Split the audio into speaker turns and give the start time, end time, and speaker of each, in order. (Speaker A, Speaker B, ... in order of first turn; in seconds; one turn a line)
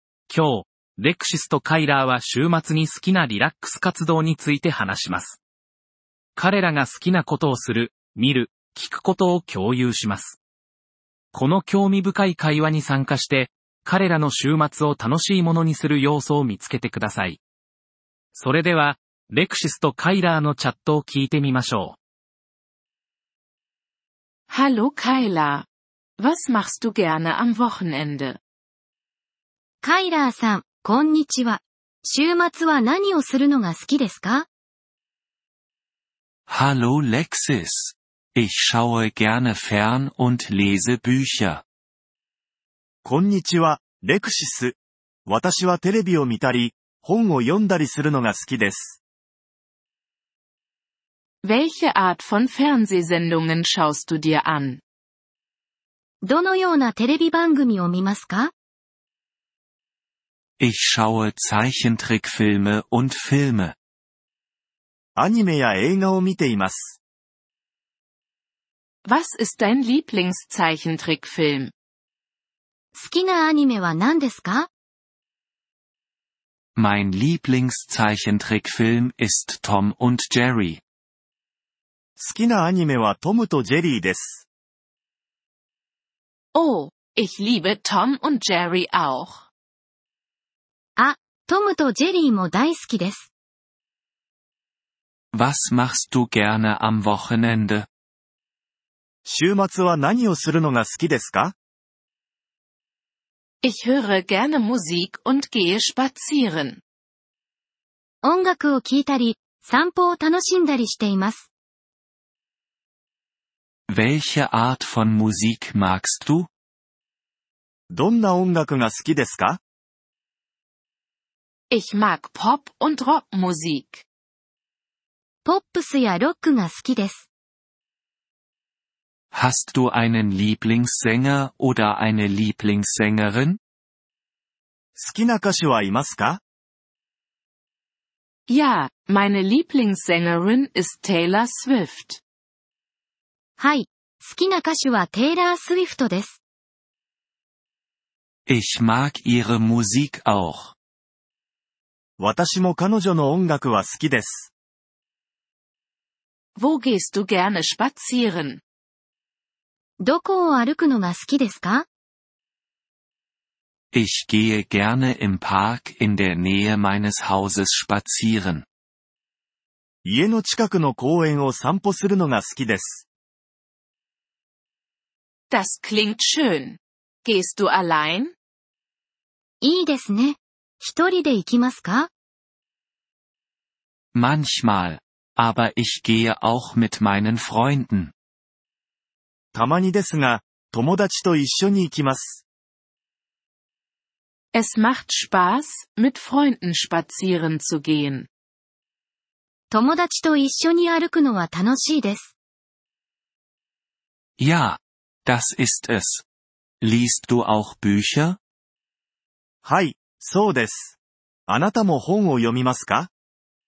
Speaker A: 0.3-5.4
Speaker A: 6.4-10.4
Speaker A: 11.3-17.4
Speaker A: 18.3-22.0
Speaker B: 24.5-25.7
Speaker B: 26.2-28.4
Speaker C: 29.8-34.5
Speaker D: 36.5-41.6
Speaker E: 43.0-49.0
Speaker B: 51.4-54.8
Speaker C: 56.2-58.5
Speaker D: 60.6-63.7
Speaker E: 65.2-67.0
Speaker B: 69.1-71.7
Speaker C: 72.9-74.7
Speaker D: 76.8-80.8
Speaker E: 82.2-84.5
Speaker B: 86.5-89.5
Speaker C: 91.0-93.3
Speaker D: 95.3-97.9
Speaker E: 99.3-101.5
Speaker B: 103.6-106.8
Speaker C: 108.2-111.5
Speaker D: 113.9-116.5
Speaker E: 117.9-119.6
Speaker B: 121.7-124.0
Speaker C: 125.4-127.3
Speaker D: 129.3-133.6
Speaker E: 134.9-136.4
Speaker B: 138.5-142.2
Speaker C: 143.6-146.4
Speaker D: 148.5-150.8
Speaker E: 152.2-154.5
Speaker B: 156.6-158.6
Speaker C: 160.0-161.9
Speaker D: 163.9-168.7
Speaker E: 170.0-173.1
Speaker B: 175.5-178.3
Speaker C: 179.6-182.1
Speaker D: 184.1-188.1
Speaker E: 189.5-192.4
Speaker B: 194.5-198.3
Speaker C: 199.7-202.3
Speaker D: 204.4-206.2
Speaker D: 206.8-208.4
Speaker E: 209.6-213.1